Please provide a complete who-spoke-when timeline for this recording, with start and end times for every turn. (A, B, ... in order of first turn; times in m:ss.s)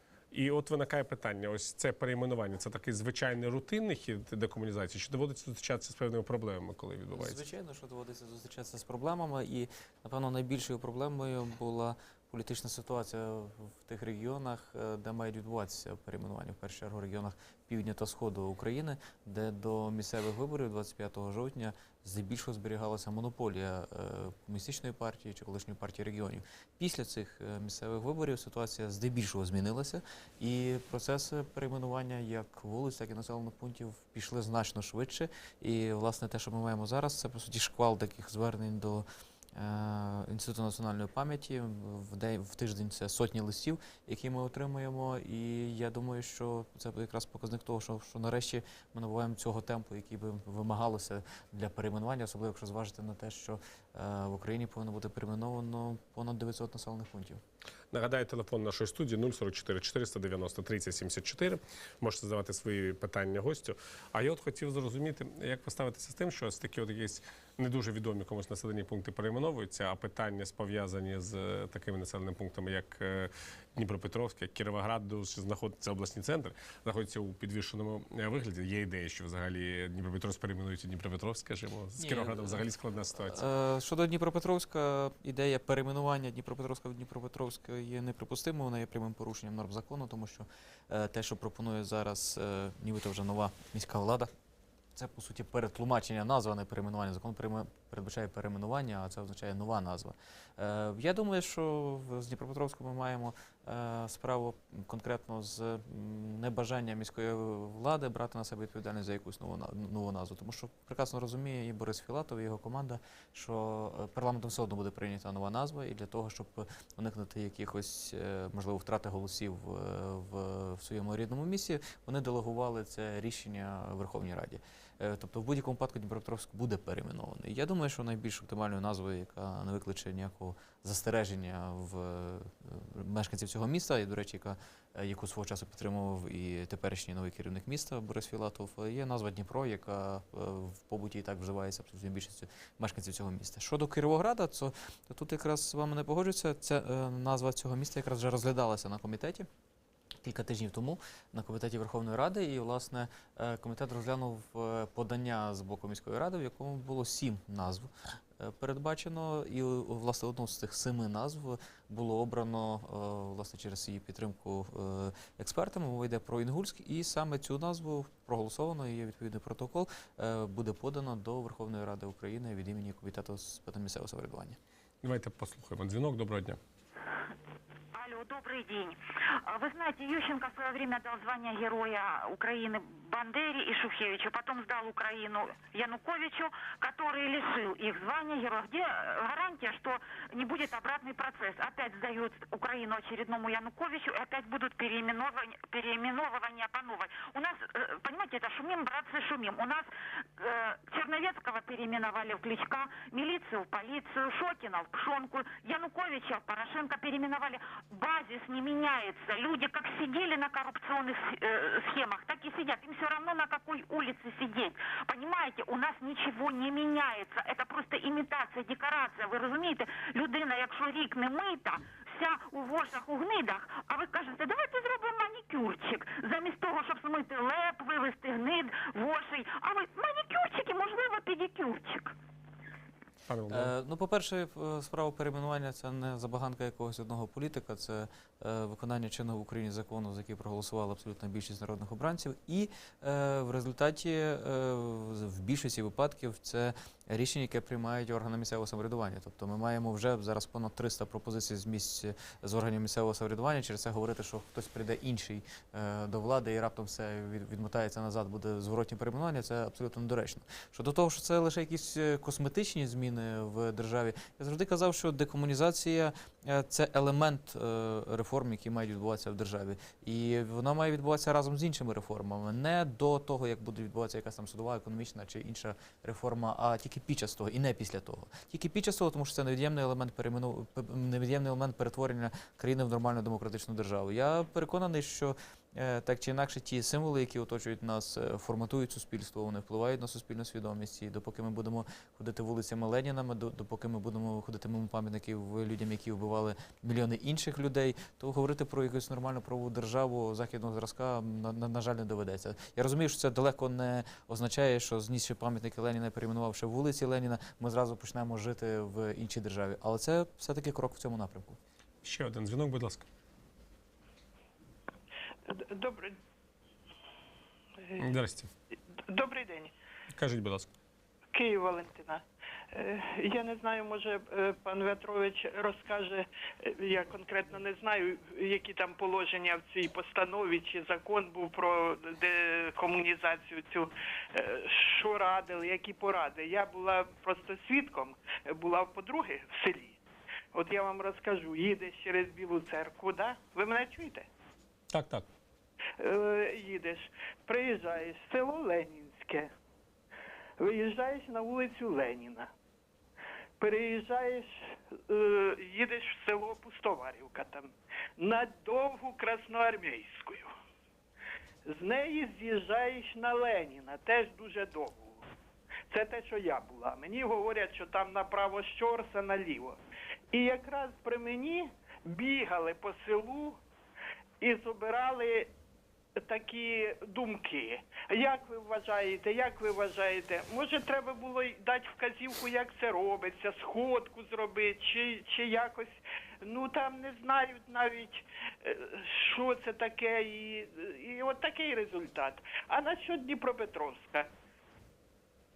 0:00.3-0:07.4 A
0:07.2-0:57.4 B
0:57.9-1:23.4 A
1:22.0-1:22.6 B
1:23.2-1:34.3 B
1:35.0-2:29.5 B
2:30.2-2:54.6 B
2:55.0-2:56.6 A
2:57.9-3:52.1 C
3:53.3-3:53.7 A
3:53.5-5:11.6 B
5:12.0-5:13.1 A
5:15.5-5:16.2 D
5:18.0-5:18.5 A
5:19.1-5:19.7 D
5:20.1-5:20.7 A
5:21.3-5:22.2 D
5:22.7-5:40.0 D
5:40.5-5:44.3 D
5:44.9-5:45.3 A
5:46.0-5:49.5 D
5:50.6-5:52.5 D
5:53.6-5:54.6 D
5:55.1-6:00.5 D
6:01.7-6:05.2 D
6:05.9-6:09.8 D
6:10.3-6:13.6 D
6:14.4-6:15.5 D
6:16.2-6:34.3 D